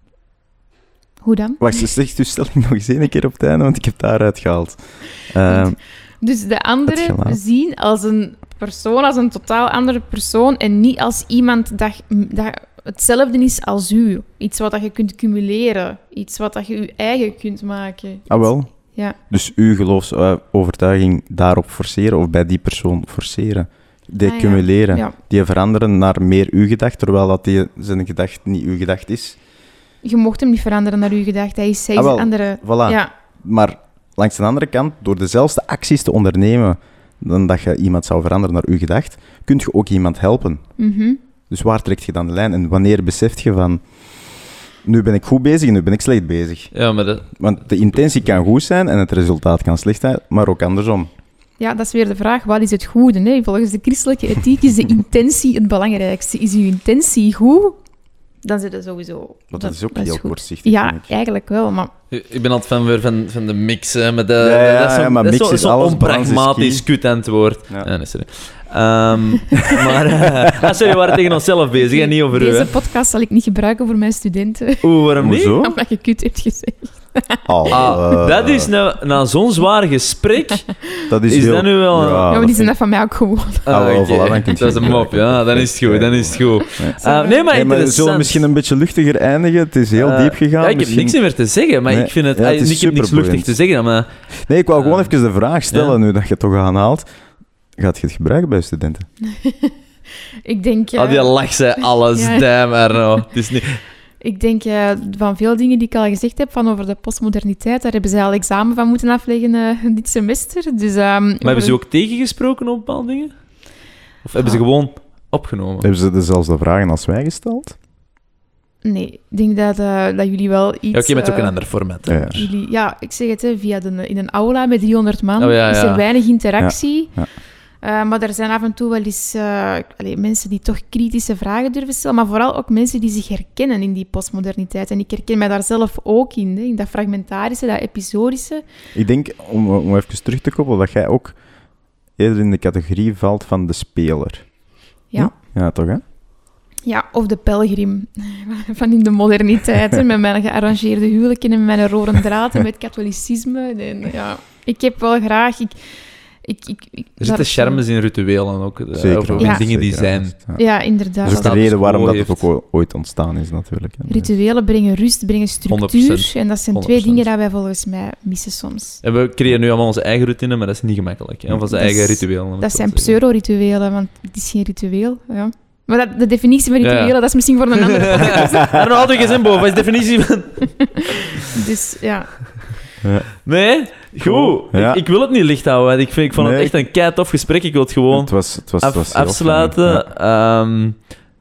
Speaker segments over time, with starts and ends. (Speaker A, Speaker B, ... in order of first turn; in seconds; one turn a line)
Speaker A: 1.2-1.8
Speaker B: 1.6-5.8
Speaker A: 5.5-19.2
Speaker B: 6.9-7.4
Speaker B: 18.3-18.8
Speaker B: 19.3-29.4
Speaker A: 24.2-25.1
Speaker A: 30.0-33.1
Speaker B: 31.9-40.6
Speaker A: 40.8-41.2
Speaker B: 41.5-46.7
Speaker C: 46.7-48.2
Speaker B: 47.3-51.1
Speaker A: 51.6-57.8
Speaker A: 58.4-61.9
Speaker B: 59.5-61.1
Speaker C: 62.1-72.7
Speaker B: 64.4-66.8
Speaker B: 69.7-71.3
Speaker A: 71.8-75.0
Speaker C: 74.8-75.6
Speaker B: 75.2-75.8
Speaker A: 75.6-78.1
Speaker B: 77.5-78.7
Speaker C: 77.7-82.4
Speaker B: 81.1-82.7
Speaker A: 82.3-83.7
Speaker C: 83.7-88.4
Speaker B: 83.7-87.0
Speaker A: 86.6-87.5
Speaker B: 87.5-91.2
Speaker C: 90.0-94.1
Speaker B: 91.9-93.5
Speaker B: 94.3-97.1
Speaker C: 94.8-95.1
Speaker C: 95.7-96.0
Speaker B: 97.7-99.1
Speaker A: 99.2-99.7
Speaker A: 100.5-102.5
Speaker C: 101.0-103.7
Speaker A: 104.2-111.8
Speaker C: 111.4-115.9
Speaker B: 115.8-117.8
Speaker A: 118.8-121.6
Speaker C: 120.9-122.3
Speaker B: 122.0-122.5
Speaker A: 122.3-138.6
Speaker C: 125.4-126.0
Speaker B: 126.6-127.3
Speaker B: 138.9-141.4
Speaker B: 142.1-144.6
Speaker B: 145.1-146.0
Speaker A: 146.8-155.8
Speaker A: 156.4-157.8
Speaker C: 157.2-160.4
Speaker B: 158.9-160.7
Speaker A: 159.4-159.6
Speaker A: 160.5-161.6
Speaker B: 161.2-164.3
Speaker C: 161.2-162.4
Speaker A: 164.1-169.0
Speaker C: 165.7-167.2
Speaker C: 169.0-173.2
Speaker A: 171.7-178.7
Speaker C: 176.8-177.2
Speaker C: 177.7-181.2
Speaker A: 180.8-182.7
Speaker B: 183.0-183.4
Speaker C: 183.4-191.1
Speaker B: 184.2-185.0
Speaker B: 186.3-186.7
Speaker B: 188.1-190.1